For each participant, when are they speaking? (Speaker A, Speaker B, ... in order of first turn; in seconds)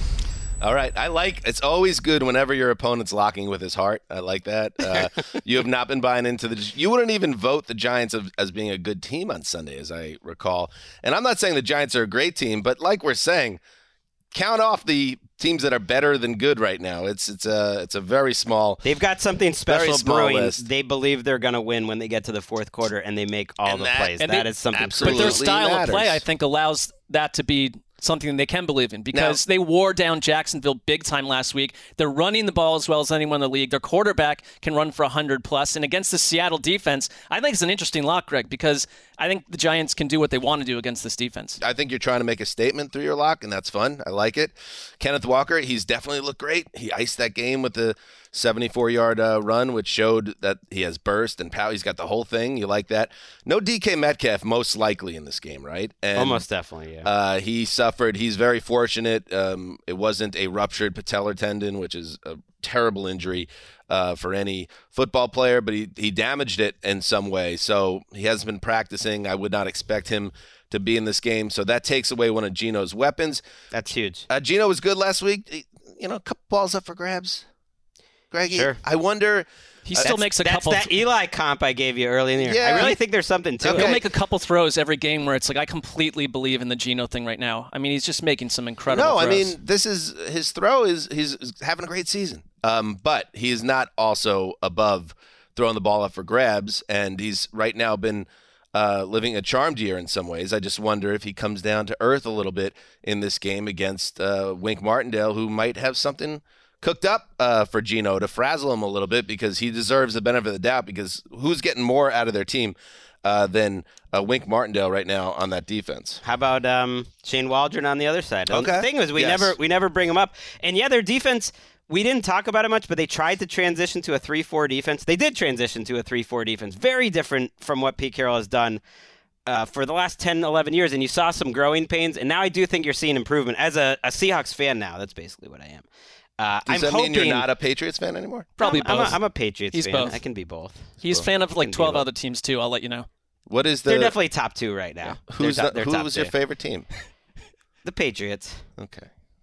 Speaker A: 0.6-13.6, 14.3-18.8, 19.7-20.6, 23.6-24.2, 24.7-26.2, 29.1-29.4, 41.6-56.4, 57.0-73.4, 74.3-77.5, 78.3-80.1, 82.4-83.0, 83.6-84.0, 88.9-116.2, 118.5-119.5, 136.7-138.5, 143.5-144.2, 145.0-146.9, 148.8-149.1
Speaker B: 18.8-25.4, 56.1-57.1, 73.7-74.2, 78.5-78.8, 80.0-83.9, 116.2-128.8, 129.5-135.8, 136.4-137.4, 138.6-140.9, 141.6-142.0, 143.9-146.3, 147.8-148.6
Speaker C: 24.2-41.6, 79.8-81.0, 83.7-89.5, 138.6-139.2, 139.7-140.2, 141.0-143.1